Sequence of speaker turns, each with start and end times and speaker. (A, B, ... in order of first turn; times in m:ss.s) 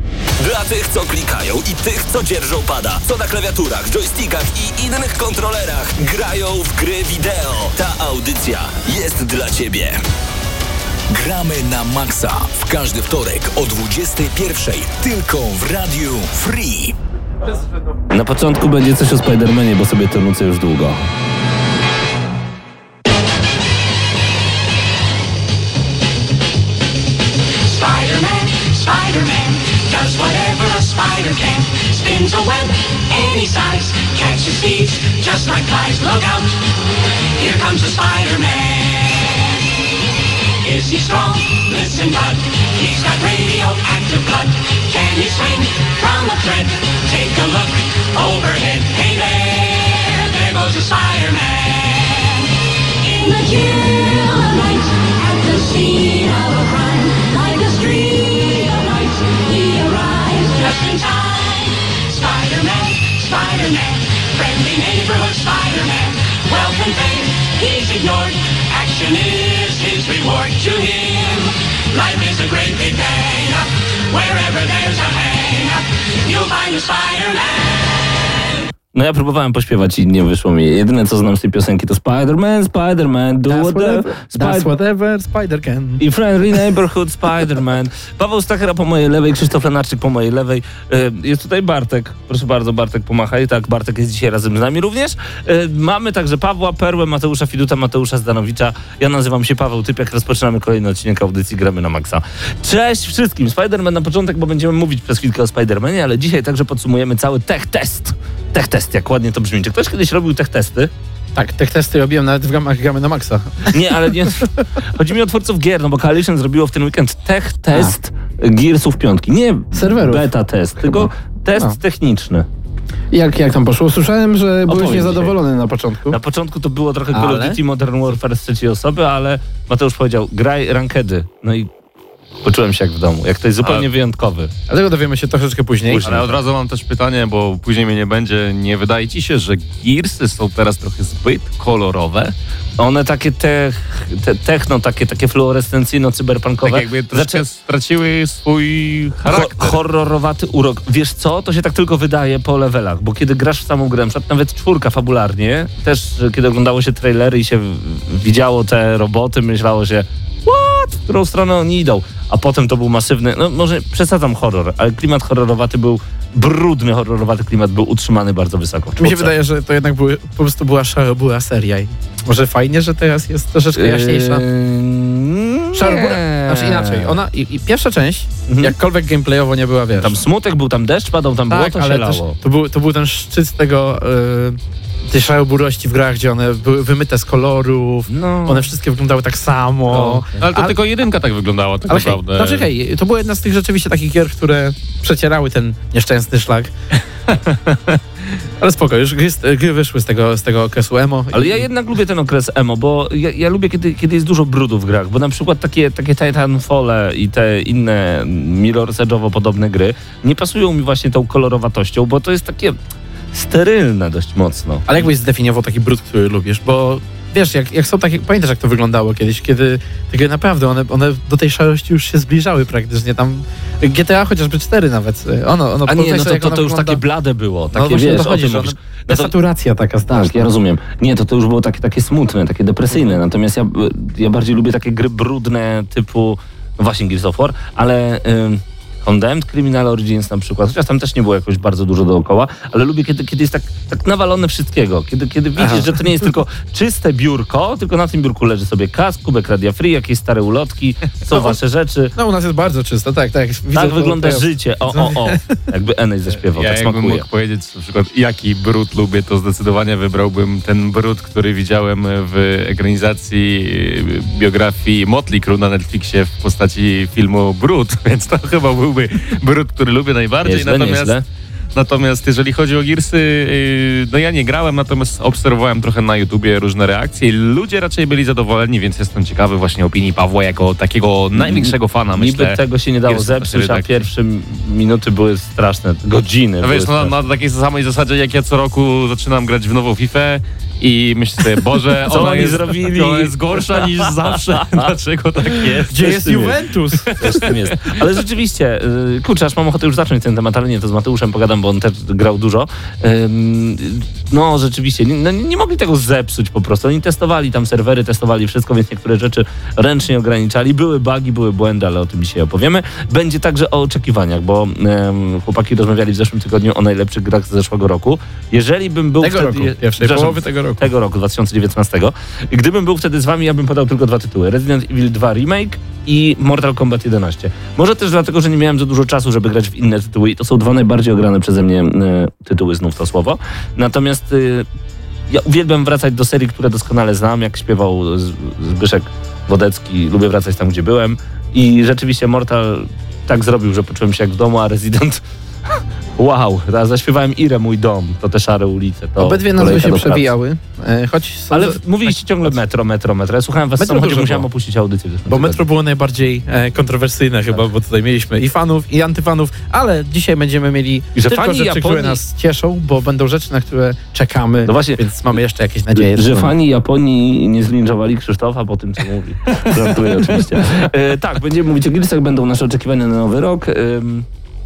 0:00.4-0:10.0 A
0:11.1-0:17.0 B
0:18.1-0:21.0 C
0:27.6-0:36.6 D
0:37.4-0:39.6 D
0:40.6-1:18.0 D
1:18.9-1:24.7 C
1:23.5-1:26.0 E
1:26.0-1:50.9 C
1:51.4-1:54.4 E
1:53.7-2:02.5 C
1:59.7-2:00.3 E
2:00.8-2:01.8 E
2:03.1-2:06.2 E
2:04.7-2:05.4 C
2:06.1-2:11.7 C
2:07.1-2:07.6 E
2:12.4-2:14.5 C
2:13.6-2:13.9 F
2:14.7-2:16.0 E
2:15.9-2:22.3 F
2:16.0-2:16.3 C
2:22.8-2:27.4 C
2:26.6-2:29.8 F
2:29.2-2:49.3 C
2:49.0-2:54.4 E
2:53.8-2:57.2 C
2:55.7-3:00.2 E
2:58.5-2:58.7 C
3:00.0-3:02.4 C
3:01.5-3:10.8 E
3:08.1-3:08.7 C
3:10.0-3:12.7 F
3:11.9-3:16.7 E
3:18.6-3:21.7 E
3:21.3-3:32.8 C
3:33.3-3:35.0 C
3:34.9-3:47.0 E
3:45.9-3:49.3 C
3:47.7-3:50.5 E
3:50.1-4:12.1 C
3:52.9-3:53.2 E
4:05.6-4:05.9 E
4:11.3-4:11.6 E
4:12.2-4:15.6 E
4:13.7-4:17.2 C
4:16.5-4:31.2 F
4:30.4-4:31.2 C
4:31.8-4:43.9 F
4:41.3-4:47.1 C
4:46.6-4:56.4 F
4:52.1-4:54.9 C
4:55.5-4:56.5 C
4:55.9-4:57.1 E
4:57.0-4:57.9 F
4:57.2-5:34.7 C
5:19.2-5:20.9 E
5:35.3-5:50.3 C
5:49.2-5:52.1 E
5:51.5-5:55.6 C
5:53.8-5:54.4 E
5:55.3-6:06.5 E
6:01.2-6:02.2 C
6:04.7-6:05.0 C
6:06.0-6:14.3 C